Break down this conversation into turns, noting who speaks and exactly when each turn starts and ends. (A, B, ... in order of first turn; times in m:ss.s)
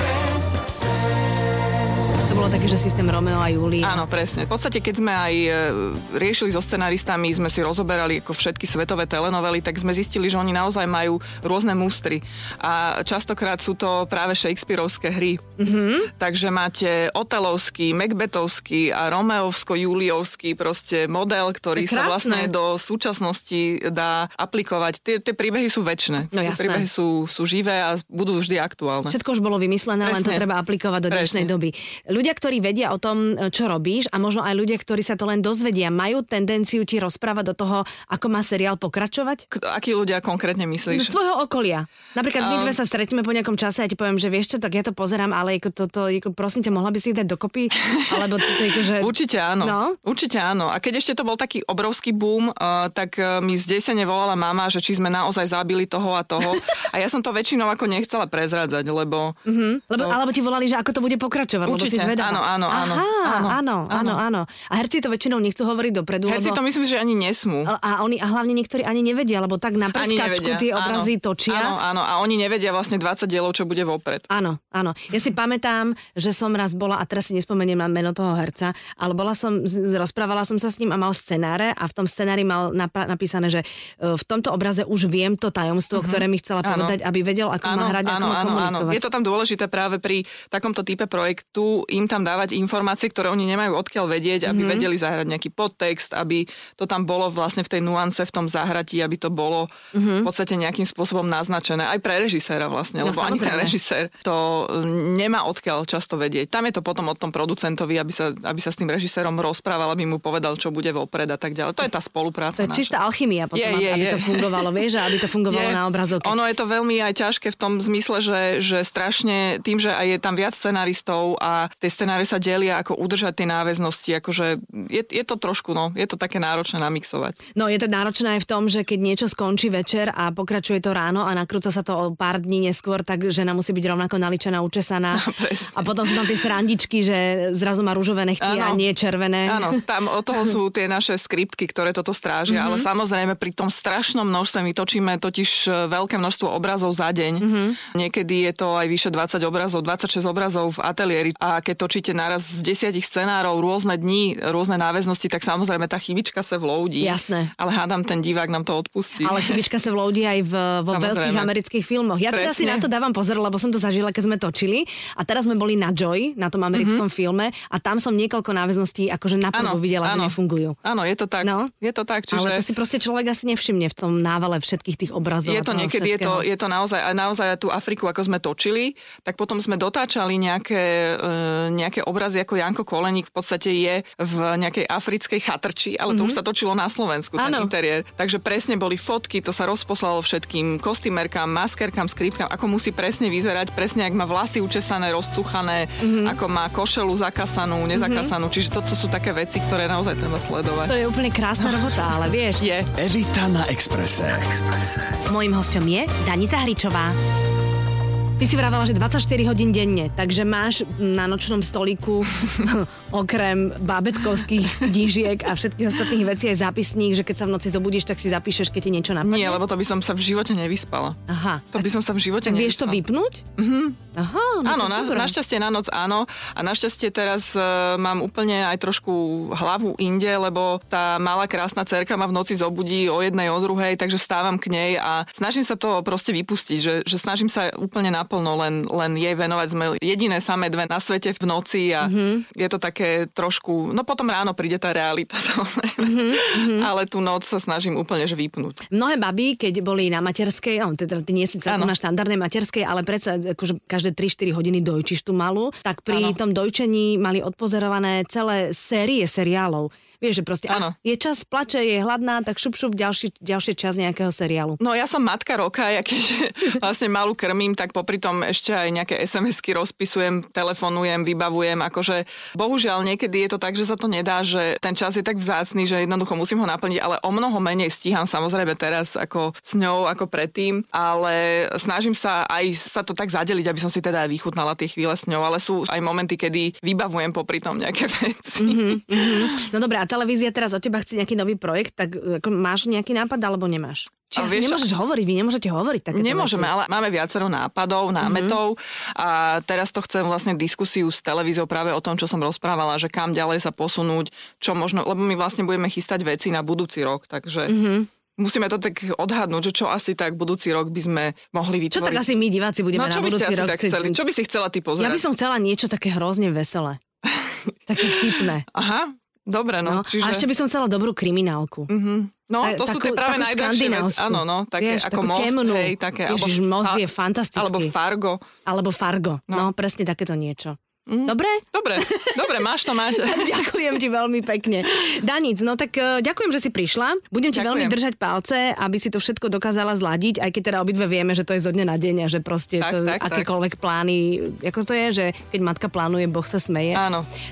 0:02.2-0:04.1 A
0:03.8-0:15.4 B
0:15.6-0:16.1 A
0:16.2-0:29.1 B
0:21.7-0:22.5 A
0:26.3-0:26.8 A
0:29.1-0:39.4 A
0:30.0-0:30.4 B
0:31.1-0:31.5 B
0:39.5-0:41.2 B
0:40.9-0:50.0 A
0:42.4-0:42.7 B
0:49.0-0:59.4 B
0:59.4-1:06.6 A
1:01.6-1:04.2 B
1:06.3-1:07.7 B
1:07.6-1:11.8 A
1:09.9-1:14.3 B
1:14.3-1:29.0 A
1:25.9-1:27.0 B
1:27.6-1:39.7 B
1:34.5-1:34.9 A
1:39.9-1:40.3 A
1:40.2-1:52.9 B
1:43.0-1:43.7 A
1:52.6-1:56.3 A
1:53.5-1:54.8 B
1:55.5-2:07.4 B
2:07.6-2:19.8 A
2:15.1-2:16.2 B
2:18.4-2:18.8 B
2:19.4-2:39.6 B
2:22.5-2:22.9 A
2:27.4-2:27.8 A
2:37.0-2:37.5 A
2:39.2-2:50.8 A
2:40.9-2:41.5 B
2:42.3-2:42.8 B
2:46.7-2:47.0 B
2:49.5-2:52.6 B
2:51.4-2:51.7 A
2:52.3-2:56.4 A
2:55.4-3:20.9 B
3:06.1-3:06.4 A
3:07.4-3:07.7 A
3:16.0-3:16.4 A
3:17.9-3:18.3 A
3:20.9-3:22.6 A
3:21.6-3:22.9 B
3:22.9-3:25.0 C
3:25.3-3:27.2 A
3:28.4-3:39.6 A
3:39.2-3:41.2 B
3:41.3-3:41.9 A
3:41.7-3:43.0 B
3:42.4-3:43.4 A
3:43.6-3:44.0 B
3:44.1-3:45.4 A
3:44.6-4:08.8 B
4:02.0-4:02.4 A
4:06.0-4:06.9 A
4:08.9-4:24.8 A
4:11.7-4:11.9 B
4:16.1-4:16.4 B
4:20.7-4:20.9 B
4:24.8-4:49.4 B
4:48.6-4:56.7 A
4:54.4-4:54.8 B
4:56.1-5:07.7 B
4:58.2-4:58.6 A
5:07.7-5:08.1 A
5:08.4-5:12.2 B
5:11.9-5:14.2 A
5:12.9-5:15.2 B
5:15.0-5:17.0 A
5:17.3-5:20.4 B
5:17.9-5:18.6 A
5:19.8-5:21.9 A
5:21.9-5:27.0 B
5:22.6-5:27.9 A
5:27.6-5:28.4 B
5:28.6-5:47.0 A
5:31.1-5:33.5 B
5:37.5-5:38.0 B
5:42.8-5:43.5 B
5:46.9-5:47.3 B